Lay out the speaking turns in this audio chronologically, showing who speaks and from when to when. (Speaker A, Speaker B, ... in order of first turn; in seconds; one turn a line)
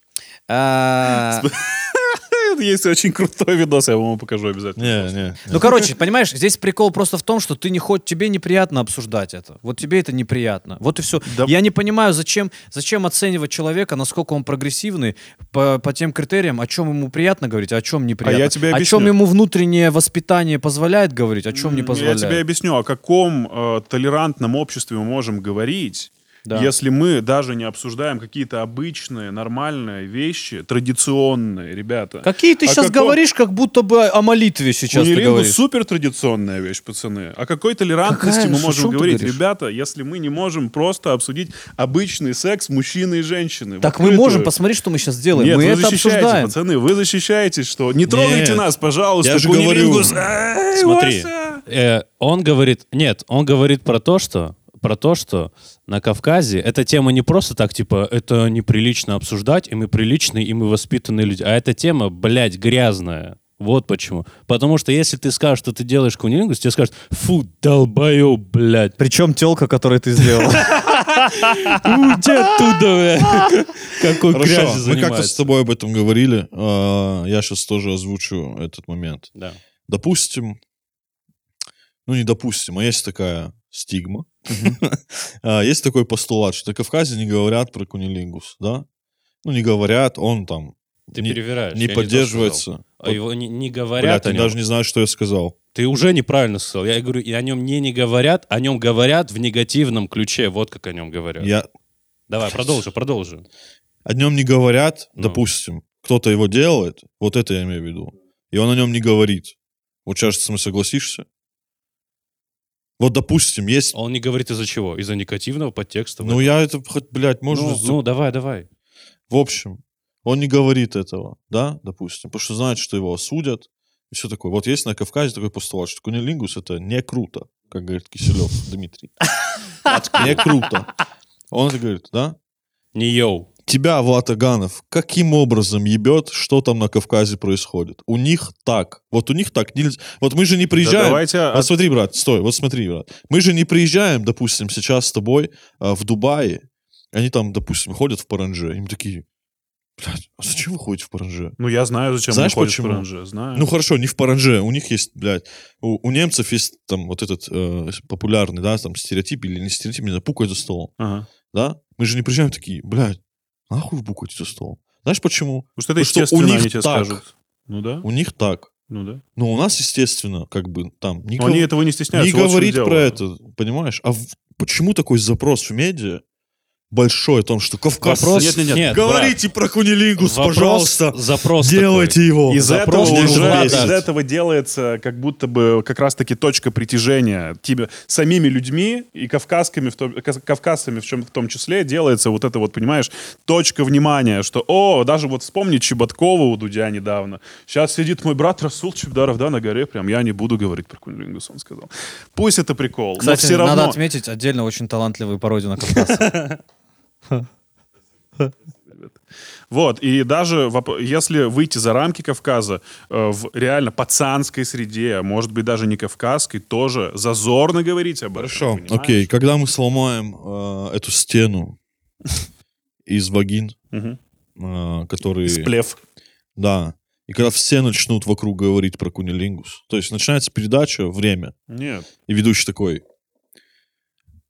Speaker A: 0.5-1.5
Speaker B: 1.3-5.1
Speaker C: 4.8-5.7
Speaker A: 5.5-22.4
Speaker B: 11.3-11.5
Speaker B: 18.2-19.1
Speaker B: 21.5-33.2
Speaker A: 26.5-26.7
Speaker A: 32.2-35.6
Speaker B: 34.9-44.5
Speaker A: 38.0-39.4
Speaker A: 43.8-46.5
Speaker B: 45.3-51.6
Speaker C: 48.1-48.7
Speaker C: 49.2-50.3
Speaker D: 50.7-69.0
Speaker A: 69.0-71.8
Speaker D: 70.5-75.5
Speaker C: 74.3-79.3
Speaker C: 79.9-80.6
Speaker C: 82.1-88.8
Speaker C: 89.4-93.2
Speaker D: 91.1-94.6
Speaker C: 94.0-95.5
Speaker D: 95.8-101.5
Speaker C: 101.4-101.7
Speaker D: 102.3-103.5
Speaker C: 104.1-109.5
Speaker D: 105.2-105.4
Speaker C: 110.1-111.2
Speaker C: 113.0-114.0
Speaker D: 113.9-116.5
Speaker C: 116.2-118.0
Speaker D: 117.5-118.7
Speaker C: 119.3-129.1
Speaker D: 129.9-130.5
Speaker C: 129.9-130.9
Speaker C: 131.5-132.4
Speaker D: 132.9-133.5
Speaker C: 133.7-149.2
Speaker B: 140.8-141.7
Speaker C: 150.0-151.6
Speaker B: 151.6-153.7
Speaker C: 152.3-160.9
Speaker B: 161.0-161.3
Speaker C: 161.5-163.2
Speaker C: 163.7-167.2
Speaker B: 165.8-168.1
Speaker C: 168.0-168.7
Speaker B: 168.9-169.2
Speaker C: 169.4-176.2
Speaker B: 171.4-173.2
Speaker C: 176.9-184.0
Speaker D: 178.0-179.0
Speaker B: 178.3-179.4
Speaker D: 180.2-184.0
Speaker B: 182.5-204.0
Speaker A: 203.2-206.3
Speaker D: 205.9-206.6
Speaker B: 209.7-219.3
Speaker C: 218.3-221.8
Speaker C: 223.1-223.8
Speaker B: 223.9-224.2
Speaker C: 224.6-225.7
Speaker B: 225.5-226.0
Speaker C: 226.6-231.5
Speaker B: 231.7-232.1
Speaker C: 232.3-233.0